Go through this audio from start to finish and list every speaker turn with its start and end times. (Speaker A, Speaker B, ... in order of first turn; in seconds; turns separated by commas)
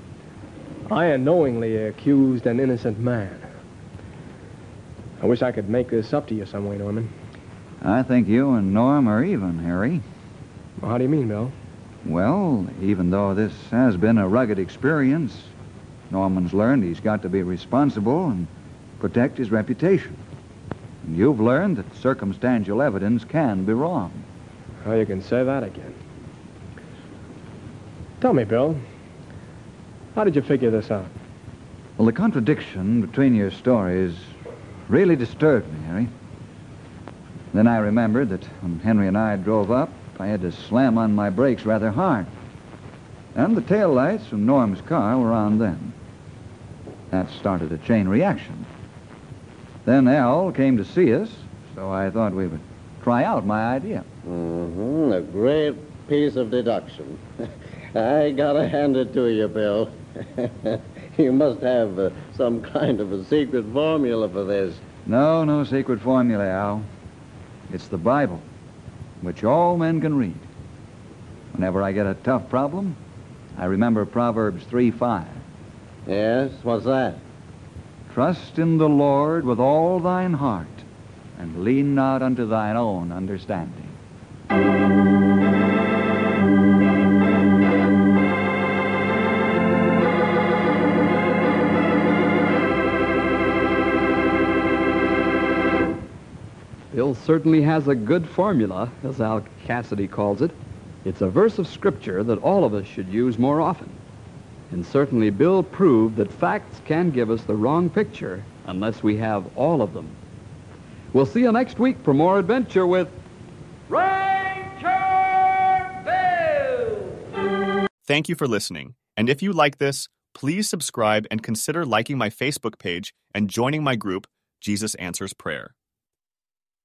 Speaker A: 0.9-3.5, Speaker A: 5.2-7.1, Speaker B: 7.8-10.0, Speaker A: 10.8-11.5, Speaker B: 12.0-15.5, Speaker B: 16.1-18.5, Speaker B: 19.0-20.2, Speaker B: 21.0-24.2, Speaker A: 24.8-26.0, Speaker A: 28.2-28.8, Speaker A: 30.1-31.1, Speaker B: 32.0-34.2, Speaker B: 34.9-36.1, Speaker B: 37.5-42.3, Speaker B: 43.4-45.9, Speaker B: 47.1-48.7, Speaker B: 49.9-54.0, Speaker C: 54.2-64.8, Speaker B: 65.0-66.9, Speaker B: 67.7-68.4, Speaker B: 69.2-70.5, Speaker B: 71.5-73.0, Speaker B: 73.5-75.4, Speaker C: 76.0-77.2, Speaker B: 78.1-80.8, Speaker B: 81.4-84.0, Speaker D: 96.9-104.0, Speaker D: 104.7-110.2, Speaker D: 111.1-113.2, Speaker D: 113.9-117.1, Speaker E: 118.0-125.7